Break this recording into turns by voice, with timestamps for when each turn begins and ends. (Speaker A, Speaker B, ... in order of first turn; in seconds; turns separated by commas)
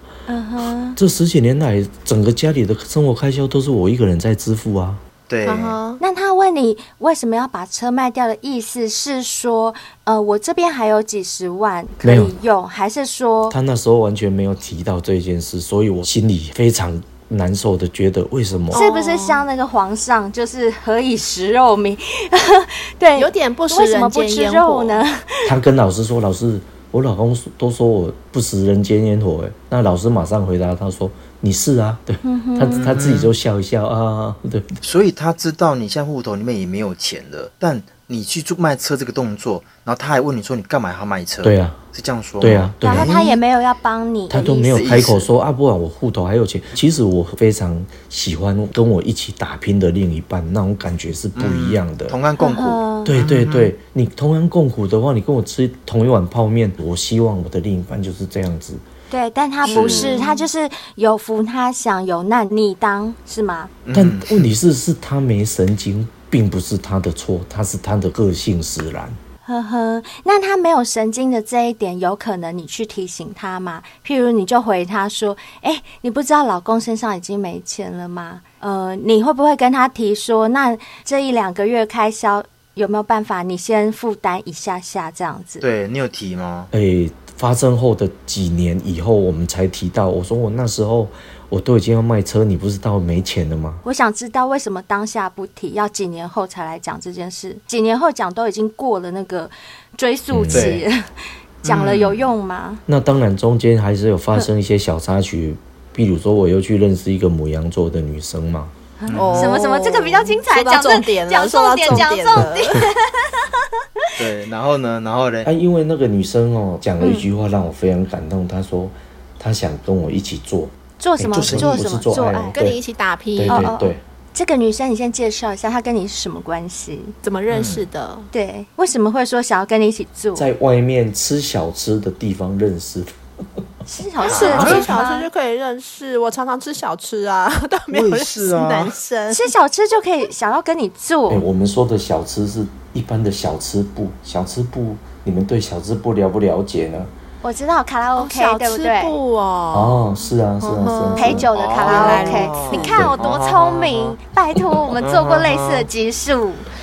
Speaker A: 0.3-1.0, Speaker B: 1.0-5.0, Speaker C: 5.3-5.8, Speaker D: 5.4-6.0, Speaker A: 6.0-13.6, Speaker B: 12.0-12.3, Speaker B: 13.5-18.8, Speaker D: 18.7-19.4, Speaker A: 18.7-25.5, Speaker D: 23.1-25.0, Speaker B: 25.4-34.8, Speaker A: 32.2-33.0, Speaker C: 32.7-33.3, Speaker C: 34.8-43.4, Speaker B: 41.4-41.8, Speaker B: 42.4-43.2, Speaker A: 42.8-45.0, Speaker B: 44.3-52.2, Speaker C: 44.7-45.3, Speaker C: 51.4-53.7, Speaker A: 52.4-53.2, Speaker B: 53.0-58.8, Speaker A: 59.1-63.7, Speaker C: 59.6-60.3, Speaker D: 59.7-60.2, Speaker C: 63.8-64.5, Speaker B: 63.9-69.2, Speaker A: 69.5-85.6, Speaker C: 85.6-86.7, Speaker B: 86.7-93.8, Speaker A: 93.8-101.1, Speaker B: 100.3-100.8, Speaker C: 100.5-100.8, Speaker A: 101.6-102.8, Speaker C: 101.6-102.3, Speaker B: 102.9-108.7, Speaker A: 109.0-113.4, Speaker C: 109.1-109.5, Speaker D: 109.1-112.8, Speaker B: 111.9-112.5, Speaker C: 114.2-115.5, Speaker B: 115.4-122.8, Speaker A: 117.0-117.2, Speaker A: 121.0-122.6, Speaker C: 121.3-121.8, Speaker D: 122.5-123.7, Speaker B: 123.3-124.0, Speaker A: 123.5-127.1, Speaker D: 127.2-128.3, Speaker C: 127.5-127.8, Speaker A: 128.3-130.5, Speaker B: 130.3-133.1, Speaker A: 133.8-135.3, Speaker C: 134.2-134.9, Speaker D: 134.2-139.5, Speaker C: 137.9-138.9, Speaker A: 139.3-141.4, Speaker B: 141.3-147.1, Speaker A: 147.4-149.2, Speaker D: 148.2-150.0, Speaker B: 149.7-151.5, Speaker D: 150.6-153.0, Speaker A: 151.2-156.7, Speaker C: 151.5-154.2, Speaker B: 152.9-153.2, Speaker C: 154.9-155.9